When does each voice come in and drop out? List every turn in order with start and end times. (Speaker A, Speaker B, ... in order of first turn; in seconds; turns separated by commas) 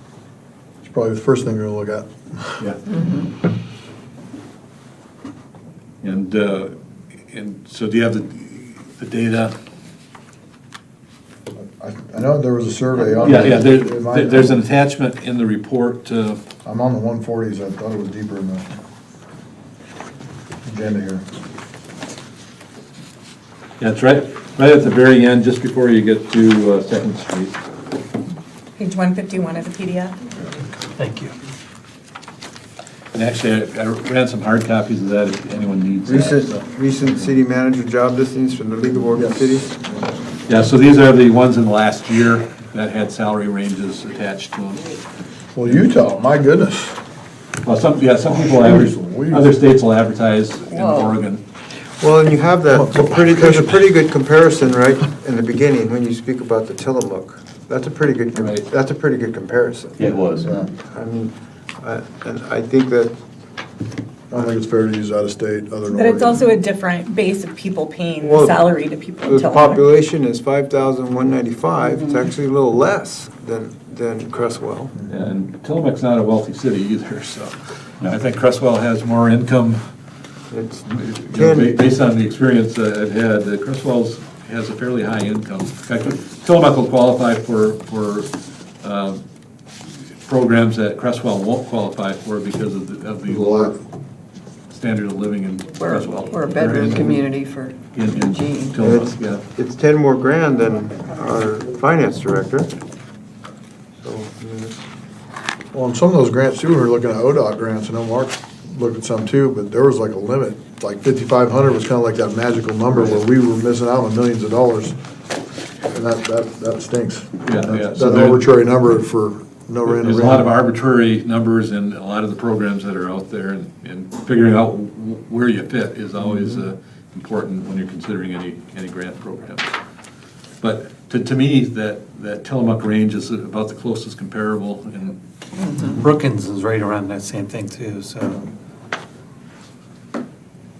Speaker A: 0.8-2.6, Speaker B: 6.0-6.7, Speaker B: 7.3-9.5, Speaker A: 11.5-14.6, Speaker B: 13.2-16.4, Speaker A: 16.6-18.8, Speaker A: 20.6-21.2, Speaker B: 23.8-27.6, Speaker C: 28.8-30.1, Speaker D: 31.0-31.3, Speaker B: 33.1-36.5, Speaker E: 36.0-39.7, Speaker A: 39.1-39.6, Speaker B: 40.5-44.9, Speaker A: 45.5-47.0, Speaker B: 47.6-51.4, Speaker A: 48.3-49.5, Speaker F: 50.7-51.2, Speaker E: 52.0-60.2, Speaker A: 52.7-53.8, Speaker B: 58.3-58.6, Speaker B: 60.0-60.5, Speaker A: 60.4-60.7, Speaker E: 60.8-63.1, Speaker A: 64.3-66.4, Speaker C: 65.9-69.8, Speaker E: 68.2-68.6, Speaker E: 69.2-74.9, Speaker F: 71.8-72.3, Speaker B: 75.1-79.8, Speaker E: 80.5-81.8, Speaker B: 80.8-89.2, Speaker B: 90.2-93.8, Speaker A: 93.3-93.8, Speaker B: 94.7-97.2, Speaker F: 95.8-98.8, Speaker E: 96.6-97.2, Speaker B: 97.9-99.4, Speaker E: 98.8-102.7, Speaker E: 104.0-104.8, Speaker A: 105.7-115.0, Speaker A: 115.9-120.5, Speaker B: 117.4-118.5, Speaker B: 119.8-129.8, Speaker B: 130.6-135.2, Speaker F: 135.6-136.0, Speaker D: 135.9-138.4